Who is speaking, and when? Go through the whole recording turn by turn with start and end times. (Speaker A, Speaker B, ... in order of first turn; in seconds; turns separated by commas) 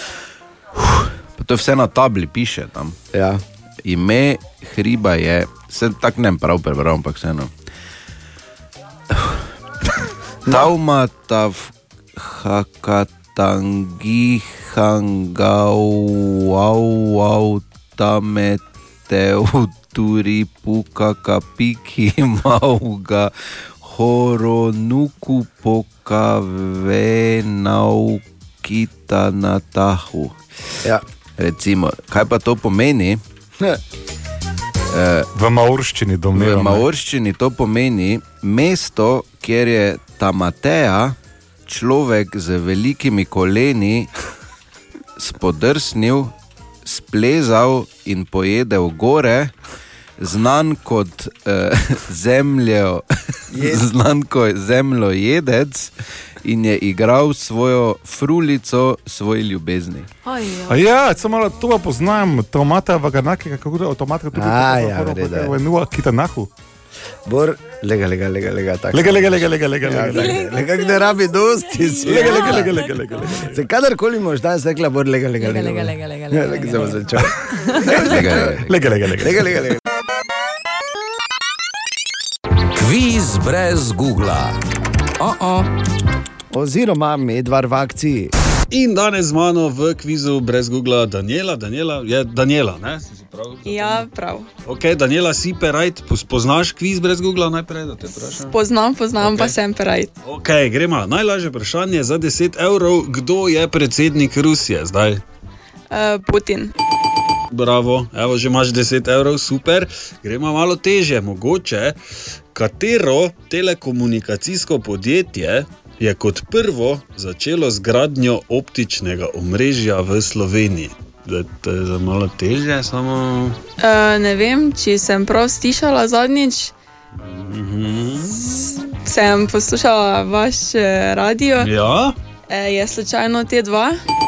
Speaker A: 0.9-3.0, Speaker B: 3.1-3.4, Speaker A: 3.9-7.5, Speaker A: 9.1-9.4, Speaker A: 10.5-30.4, Speaker A: 31.4-33.2, Speaker A: 34.9-35.3, Speaker C: 35.4-36.9, Speaker A: 36.3-44.1, Speaker A: 45.2-46.3, Speaker A: 46.9-49.5, Speaker A: 50.2-60.1, Speaker B: 53.5-53.9, Speaker D: 60.2-60.8, Speaker C: 60.7-66.5, Speaker B: 64.3-65.5, Speaker B: 67.3-72.8, Speaker C: 68.9-70.4, Speaker D: 70.1-73.4, Speaker C: 72.1-73.6, Speaker B: 73.3-78.6, Speaker D: 75.4-78.0, Speaker A: 78.0-78.7, Speaker C: 78.5-79.7, Speaker B: 79.2-79.8, Speaker E: 82.7-84.6, Speaker E: 85.2-85.7, Speaker B: 86.5-88.3, Speaker F: 88.7-94.1, Speaker G: 93.6-94.5, Speaker F: 94.6-98.5, Speaker G: 98.3-100.1, Speaker F: 99.2-99.6, Speaker F: 100.2-105.2, Speaker G: 105.9-106.7, Speaker F: 107.5-112.0, Speaker F: 112.5-123.6, Speaker G: 123.8-126.7, Speaker F: 127.2-128.4, Speaker G: 128.9-131.7, Speaker F: 131.6-132.2, Speaker G: 132.5-134.0